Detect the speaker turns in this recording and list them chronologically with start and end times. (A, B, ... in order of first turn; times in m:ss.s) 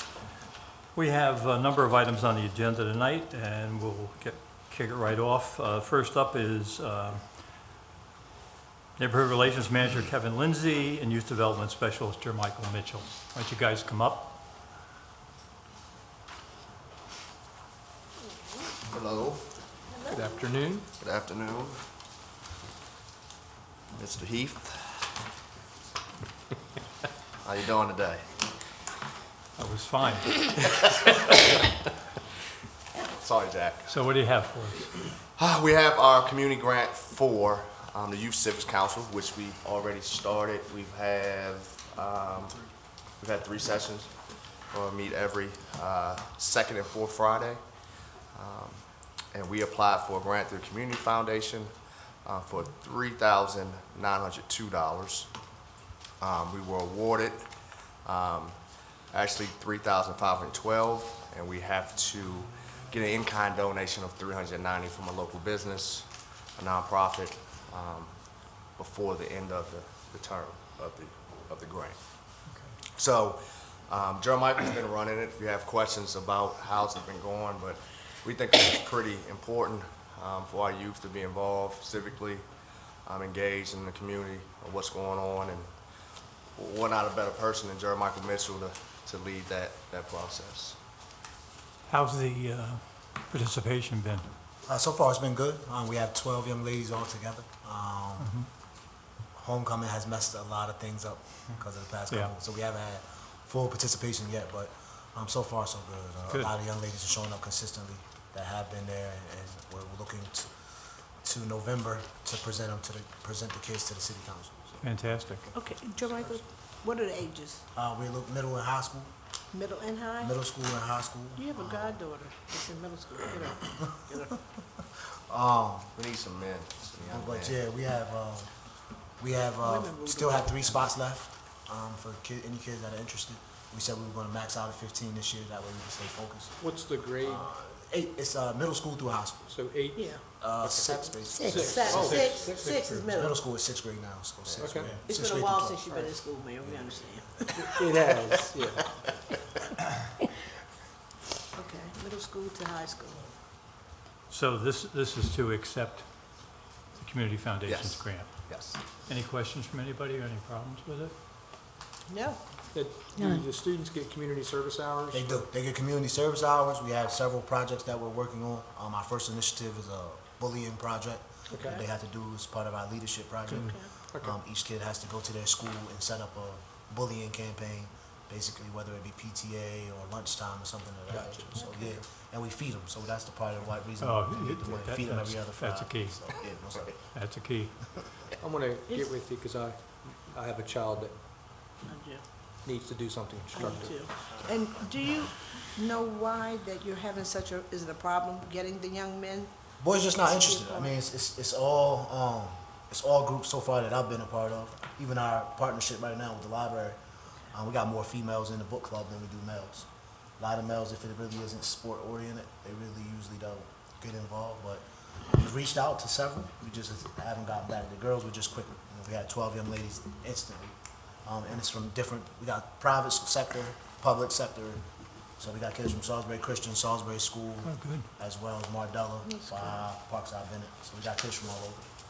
0:00.9-0:07.4 A
0:09.0-0:14.3 A
0:18.9-0:19.5 B
0:20.1-0:20.9 C
0:21.0-0:21.8 B
0:24.0-0:25.1 B
0:27.4-0:28.4 B
0:29.6-0:30.4 A
0:30.6-0:31.6 B
0:33.0-0:34.0 B
0:33.9-0:35.0 A
0:35.4-0:42.6 B
0:43.2-0:44.1 B
0:44.7-0:47.6 B
0:48.3-0:51.7 B
0:52.2-0:55.3 B
0:56.2-1:08.2 B
1:08.7-1:12.4 B
1:12.5-1:12.8 A
1:12.9-1:25.7 B
1:26.6-1:30.8 B
1:31.9-1:34.3 A
1:34.7-1:38.5 D
1:38.2-1:38.5 A
1:39.3-1:50.5 D
1:51.2-1:54.8 D
1:54.8-1:55.5 A
1:55.5-1:57.6 E
1:57.8-1:59.1 D
1:59.5-2:00.4 E
2:00.2-2:02.0 D
2:01.4-2:04.4 E
2:05.3-2:05.9 D
2:06.0-2:07.6 B
2:07.1-2:08.5 D
2:09.2-2:16.6 D
2:09.6-2:10.9 E
2:16.6-2:17.5 C
2:17.2-2:19.6 D
2:19.5-2:22.9 C
2:20.0-2:20.2 E
2:20.4-2:22.4 D
2:21.4-2:23.4 E
2:22.2-2:22.5 B
2:22.8-2:23.0 A
2:22.9-2:26.0 D
2:24.4-2:24.9 B
2:24.6-2:25.0 C
2:25.0-2:27.7 E
2:27.6-2:28.8 C
2:31.5-2:33.3 E
2:34.3-2:41.1 A
2:37.7-2:38.8 B
2:42.1-2:42.4 E
2:42.7-2:45.5 C
2:45.1-3:07.0 D
2:51.5-2:51.8 E
2:51.5-2:51.8 C
2:53.5-2:53.9 E
2:53.6-2:54.4 C
3:01.1-3:01.4 C
3:01.6-3:02.0 E
3:04.0-3:06.3 A
3:07.1-3:08.0 A
3:08.4-3:11.2 C
3:11.8-3:12.2 E
3:12.6-3:14.0 C
3:13.5-3:19.5 E
3:19.8-3:27.0 D
3:20.2-3:21.0 E
3:27.5-3:29.9 D
3:30.4-3:44.8 D
3:45.4-3:51.9 D
3:47.6-3:48.1 A
3:49.2-3:49.8 E